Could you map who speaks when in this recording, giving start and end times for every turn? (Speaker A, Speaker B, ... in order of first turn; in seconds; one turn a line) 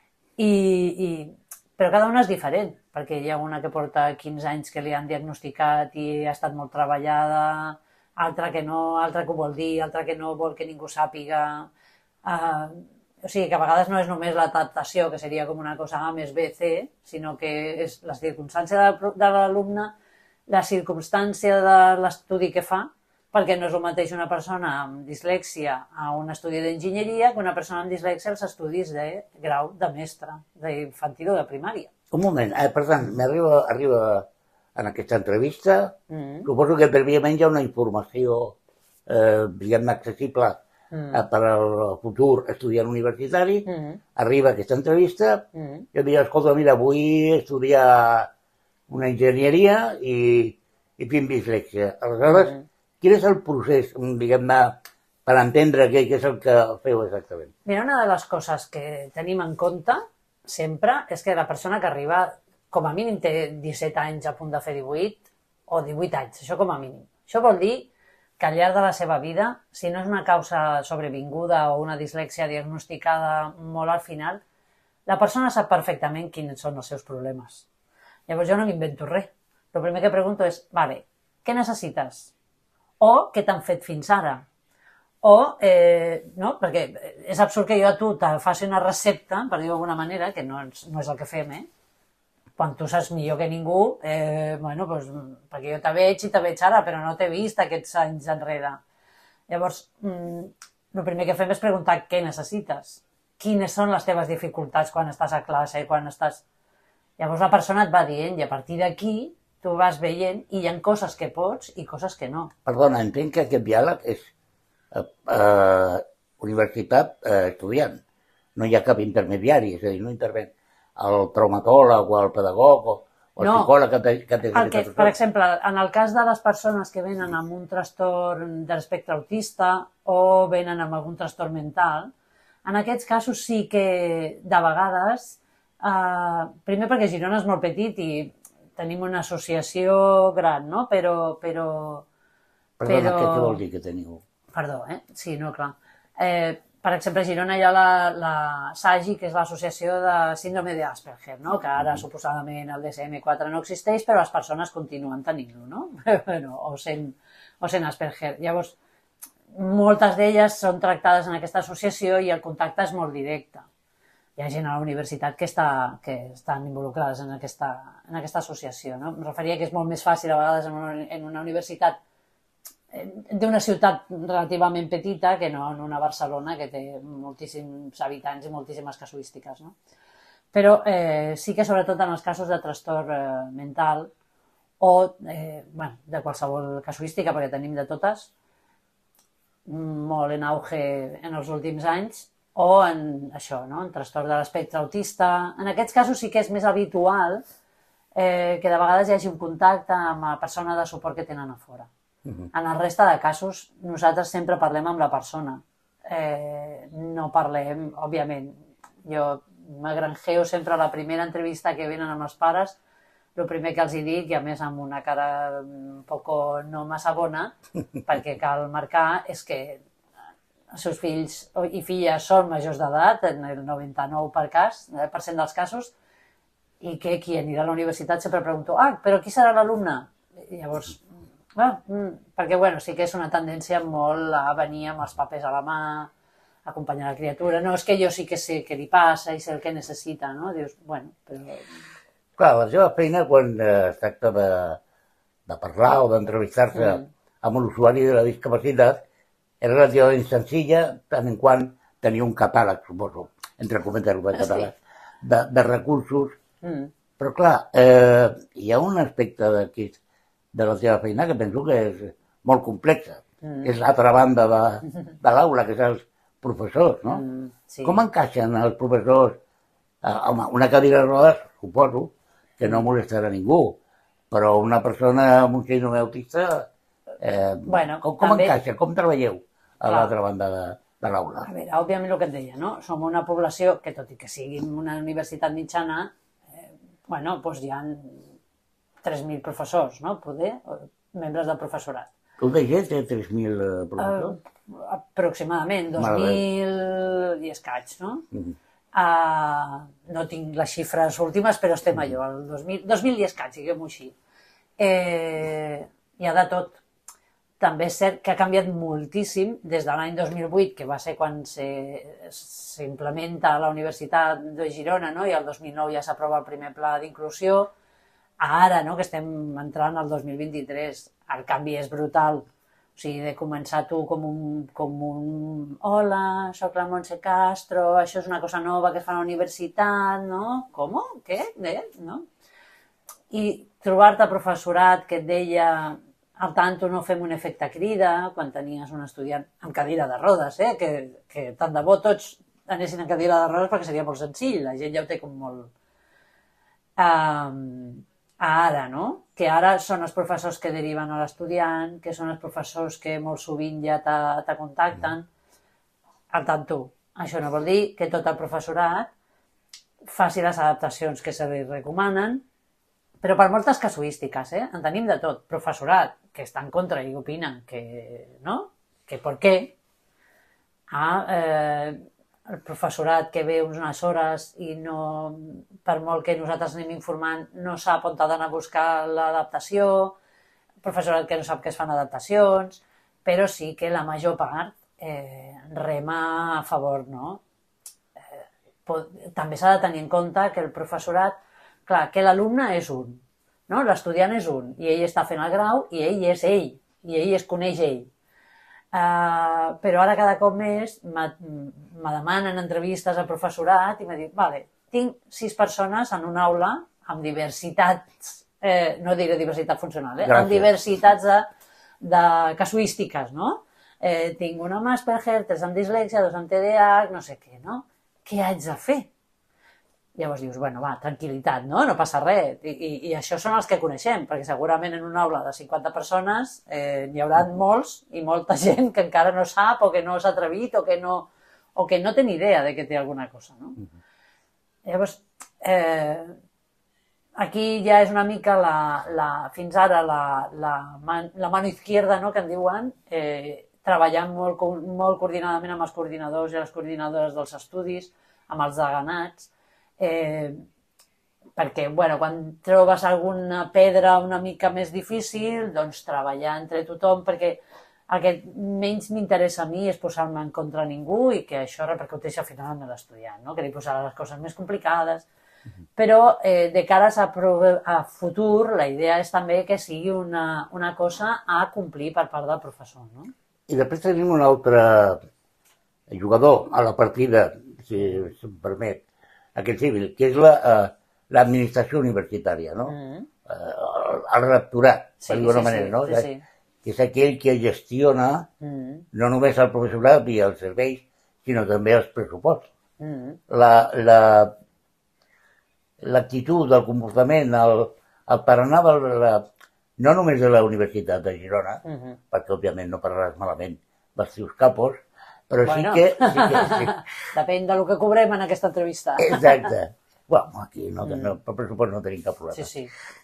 Speaker A: 0.4-11.7
Speaker A: 12.2-19.9
Speaker A: 20.5-31.9
Speaker B: 32.1-38.6
Speaker A: 36.1-36.5
Speaker B: 39.1-40.6
Speaker A: 40.9-41.2
Speaker B: 41.1-48.3
Speaker A: 43.7-44.0
Speaker A: 45.5-45.9
Speaker B: 48.9-57.5
Speaker A: 52.2-52.6
Speaker A: 57.7-74.4
Speaker A: 75.1-77.7
Speaker A: 78.3-82.3
Speaker A: 83.0-84.5
Speaker A: 85.2-91.7
Speaker A: 92.6-98.8
Speaker A: 99.5-106.4
Speaker A: 107.2-112.5
Speaker B: 112.7-114.3
Speaker B: 114.9-118.0
Speaker B: 118.6-125.1
Speaker A: 123.4-123.7
Speaker A: 124.5-132.1
Speaker A: 132.7-142.1
Speaker B: 142.8-144.2
Speaker A: 142.9-143.6
Speaker A: 144.5-158.8
Speaker A: 159.5-163.7
Speaker A: 164.4-172.0
Speaker A: 172.9-179.8
Speaker A: 180.5-184.1
Speaker A: 184.8-188.3
Speaker A: 189.7-197.4
Speaker A: 198.2-201.9
Speaker A: 202.5-212.8
Speaker A: 213.4-219.8
Speaker A: 220.7-225.9
Speaker A: 226.8-231.0
Speaker A: 231.6-236.1
Speaker A: 236.7-241.7
Speaker B: 242.4-244.8
Speaker B: 245.5-249.0
Speaker A: 246.8-247.1
Speaker B: 249.6-256.4
Speaker A: 254.3-254.7
Speaker A: 256.6-256.9
Speaker B: 257.2-260.0
Speaker B: 260.5-267.2
Speaker A: 263.4-263.7
Speaker A: 267.1-268.0
Speaker B: 267.9-269.4
Speaker B: 270.0-273.8
Speaker B: 274.3-276.7
Speaker B: 277.2-281.5
Speaker A: 277.7-278.6
Speaker A: 279.9-280.1
Speaker A: 281.4-288.3
Speaker A: 289.0-292.1
Speaker B: 292.4-294.4
Speaker A: 294.0-298.3
Speaker B: 296.0-296.4
Speaker A: 298.9-304.1
Speaker A: 304.8-306.8
Speaker A: 307.6-317.7
Speaker A: 318.4-332.3
Speaker A: 333.3-345.7
Speaker A: 347.0-355.3
Speaker A: 356.3-359.1
Speaker A: 360.1-362.4
Speaker A: 363.2-369.7
Speaker A: 370.9-380.2
Speaker A: 380.8-387.4
Speaker A: 388.3-398.1
Speaker A: 398.9-411.5
Speaker B: 410.2-410.7
Speaker A: 412.0-419.1
Speaker A: 420.2-433.8
Speaker A: 434.9-436.4
Speaker A: 437.4-450.6
Speaker A: 451.6-465.3
Speaker A: 466.0-473.3
Speaker B: 473.7-475.2
Speaker B: 476.1-479.0
Speaker B: 479.6-483.0
Speaker A: 482.9-483.3
Speaker B: 483.5-486.3
Speaker A: 485.2-486.4
Speaker B: 486.8-488.5
Speaker A: 488.6-489.1
Speaker B: 489.1-492.7
Speaker A: 493.0-493.4
Speaker B: 493.5-494.5
Speaker B: 496.0-499.4
Speaker B: 500.0-507.0
Speaker A: 501.9-502.2
Speaker A: 505.6-509.7
Speaker B: 509.2-512.7
Speaker A: 511.0-511.3
Speaker A: 512.5-512.9